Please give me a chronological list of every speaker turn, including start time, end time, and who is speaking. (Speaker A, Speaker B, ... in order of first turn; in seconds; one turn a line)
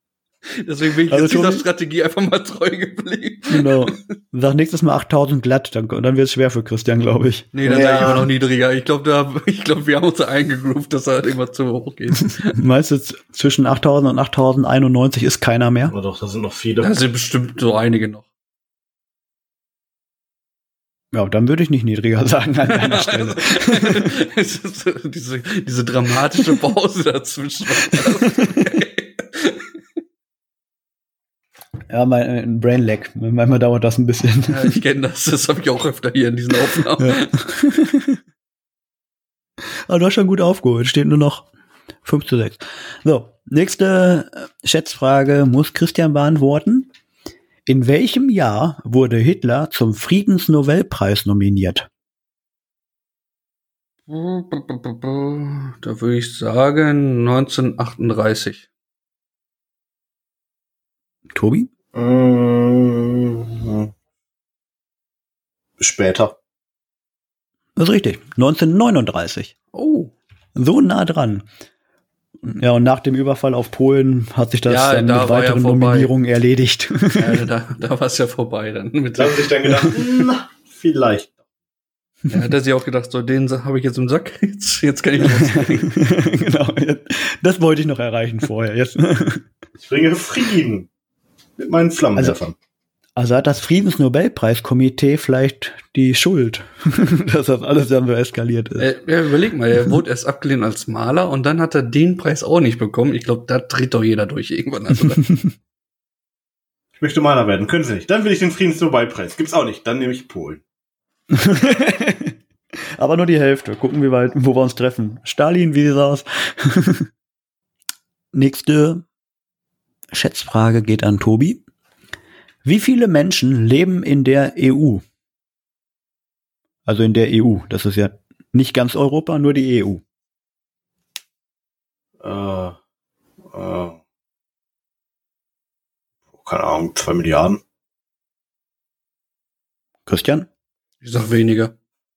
Speaker A: 0.6-4.0
Speaker B: 1.1-1.6
Speaker B: 3.5-7.5
Speaker A: 7.5-12.6
Speaker C: 7.6-8.3
Speaker B: 12.4-15.9
Speaker C: 15.9-16.9
Speaker A: 16.8-18.3
Speaker B: 21.1-24.1
Speaker A: 22.7-29.7
Speaker B: 28.0-28.6
Speaker B: 31.9-34.8
Speaker A: 34.5-37.3
Speaker B: 37.0-38.2
Speaker B: 39.9-41.5
Speaker B: 42.0-46.9
Speaker B: 47.7-51.9
Speaker A: 54.1-58.7
Speaker B: 61.3-61.7
Speaker C: 61.9-63.9
Speaker C: 65.8-66.4
Speaker B: 67.8-69.5
Speaker A: 69.7-70.1
Speaker B: 70.6-71.5
Speaker B: 72.4-77.4
Speaker A: 74.7-76.1
Speaker A: 77.2-79.8
Speaker C: 79.2-81.3
Speaker A: 82.3-85.9
Speaker B: 85.2-89.5
Speaker C: 89.8-90.9
Speaker C: 91.6-92.5
Speaker B: 93.2-98.9
Speaker A: 98.8-105.2
Speaker C: 107.0-110.6
Speaker B: 111.3-112.3
Speaker B: 113.0-117.1
Speaker B: 118.3-119.0
Speaker B: 120.1-121.6
Speaker B: 122.7-125.0
Speaker B: 126.9-130.0
Speaker C: 132.2-132.8
Speaker C: 133.5-134.0
Speaker C: 136.3-137.6
Speaker B: 140.1-140.5
Speaker A: 141.0-141.7